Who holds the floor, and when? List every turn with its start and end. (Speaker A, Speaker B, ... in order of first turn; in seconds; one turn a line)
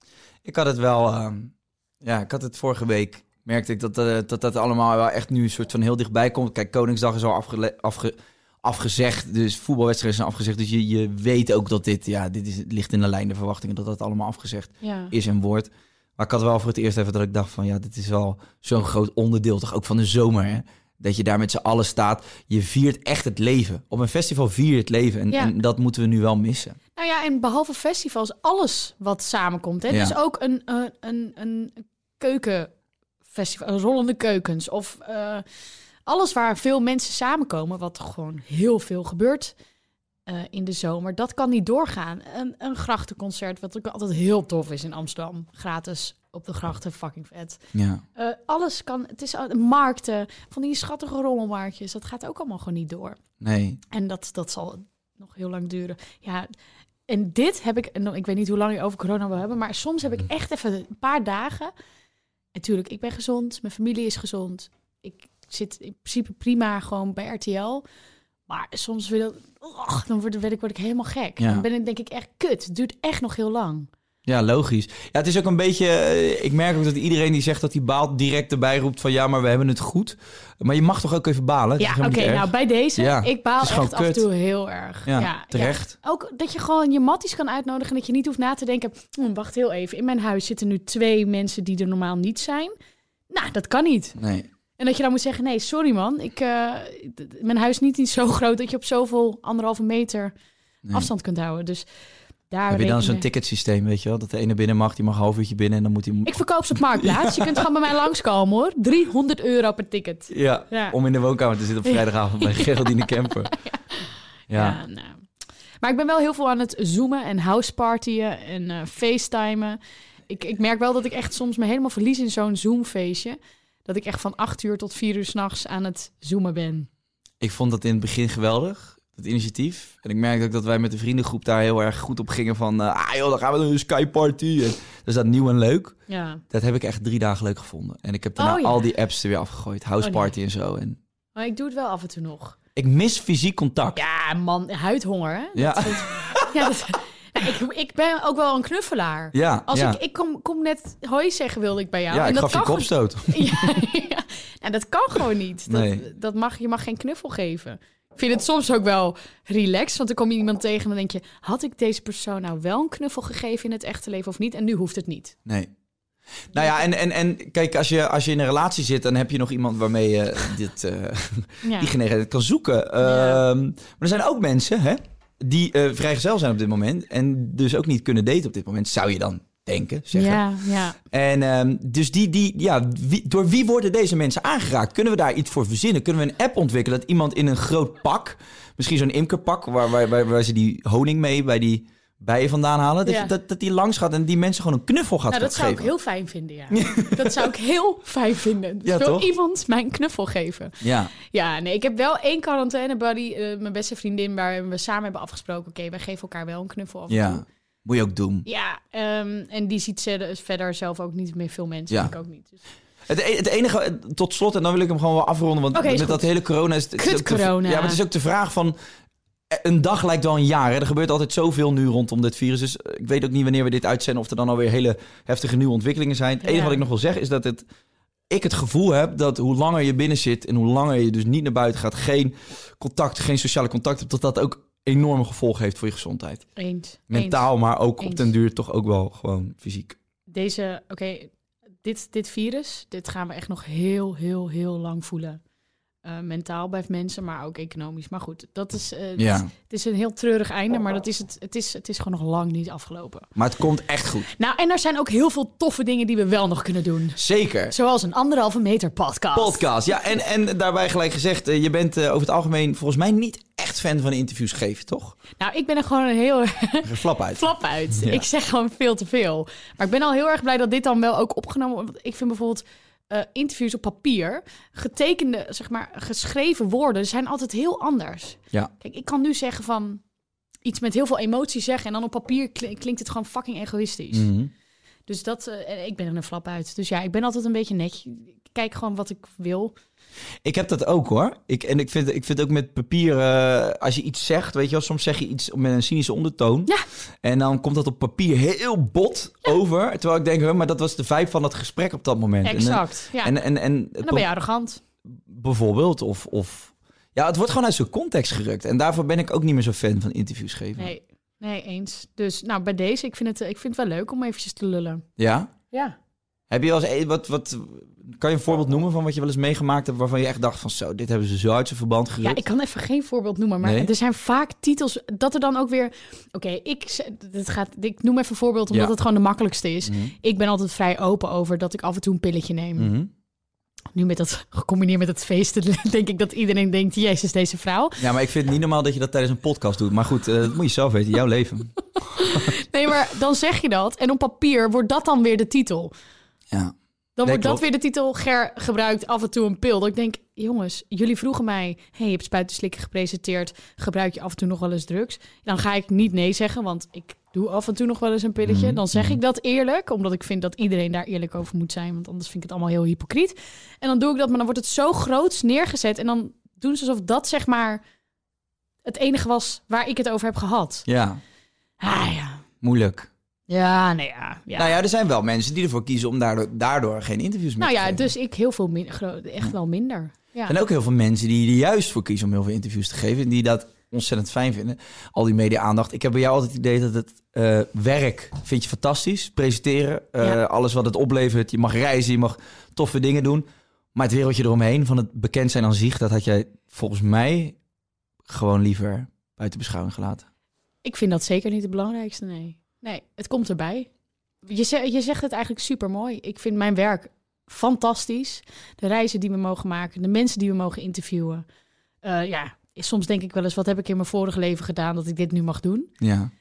Speaker A: 0.4-26.8
Speaker B: 14.8-15.1
Speaker B: 25.3-25.5
Speaker B: 26.9-32.7
Speaker A: 29.9-30.1
Speaker B: 33.3-35.4
Speaker B: 36.0-39.5
Speaker B: 40.2-47.6
Speaker A: 47.7-48.0
Speaker B: 48.1-53.2
Speaker A: 53.4-53.8
Speaker B: 53.9-56.5
Speaker B: 57.1-61.7
Speaker B: 62.5-67.8
Speaker B: 68.5-73.9
Speaker A: 71.4-71.6
Speaker A: 74.2-84.2
Speaker B: 81.8-92.7
Speaker A: 85.0-85.9
Speaker B: 93.3-94.2
Speaker A: 94.2-94.5
Speaker B: 94.8-100.3
Speaker B: 100.9-101.8
Speaker B: 102.5-103.2
Speaker A: 102.7-107.7
Speaker B: 106.2-111.0
Speaker A: 110.3-113.5
Speaker B: 111.8-115.2
Speaker A: 114.5-114.8
Speaker B: 115.8-119.8
Speaker B: 120.3-126.9
Speaker A: 127.4-136.0
Speaker B: 136.1-136.4
Speaker A: 136.5-141.0
Speaker B: 138.4-138.9
Speaker B: 140.0-140.3
Speaker B: 141.3-142.6
Speaker A: 142.8-144.0
Speaker B: 143.9-165.3
Speaker A: 145.6-146.7
Speaker A: 149.3-150.0
Speaker A: 152.1-153.8
Speaker A: 155.7-156.1
Speaker A: 165.4-165.7
Speaker A: 166.5-180.5
Speaker B: 171.6-171.9
Speaker B: 173.0-173.4
Speaker B: 180.1-181.0
Speaker A: 181.0-195.9
Speaker B: 193.0-193.3
Speaker B: 195.3-207.4
Speaker A: 196.7-197.5
Speaker A: 198.8-199.3
Speaker A: 200.8-201.1
Speaker A: 207.1-208.4
Speaker B: 208.4-212.6
Speaker A: 213.1-218.8
Speaker B: 215.7-216.3
Speaker B: 216.9-218.0
Speaker A: 219.5-227.6
Speaker B: 226.4-226.8
Speaker A: 228.3-236.4
Speaker B: 236.6-238.3
Speaker A: 237.1-240.0
Speaker B: 240.3-241.3
Speaker B: 241.8-245.4
Speaker B: 246.0-253.3
Speaker A: 249.2-249.5
Speaker A: 253.3-254.3
Speaker B: 254.4-259.7
Speaker A: 257.1-257.7
Speaker A: 259.3-265.1
Speaker B: 265.4-280.0
Speaker A: 266.8-268.2
Speaker B: 280.6-284.3
Speaker A: 284.1-284.5
Speaker B: 285.1-289.7
Speaker A: 290.4-304.3
Speaker B: 302.4-303.3
Speaker B: 304.0-304.8
Speaker A: 305.0-310.9
Speaker B: 310.8-315.0
Speaker A: 315.2-315.5
Speaker A: 316.5-322.4
Speaker B: 322.2-332.9
Speaker A: 323.6-323.9
Speaker A: 329.8-330.1
Speaker A: 332.8-333.1
Speaker B: 333.9-338.0
Speaker A: 338.0-342.5
Speaker B: 342.1-345.9
Speaker A: 346.5-347.6
Speaker B: 347.2-367.8
Speaker A: 358.4-359.2
Speaker B: 368.8-370.9
Speaker A: 370.9-371.2
Speaker B: 371.8-372.4
Speaker A: 372.6-373.1
Speaker B: 373.5-374.8
Speaker A: 374.5-378.1
Speaker B: 377.6-380.6
Speaker A: 380.4-397.6
Speaker A: 398.3-400.2
Speaker B: 400.8-403.9
Speaker B: 404.4-411.4
Speaker B: 412.0-415.9
Speaker A: 416.0-416.3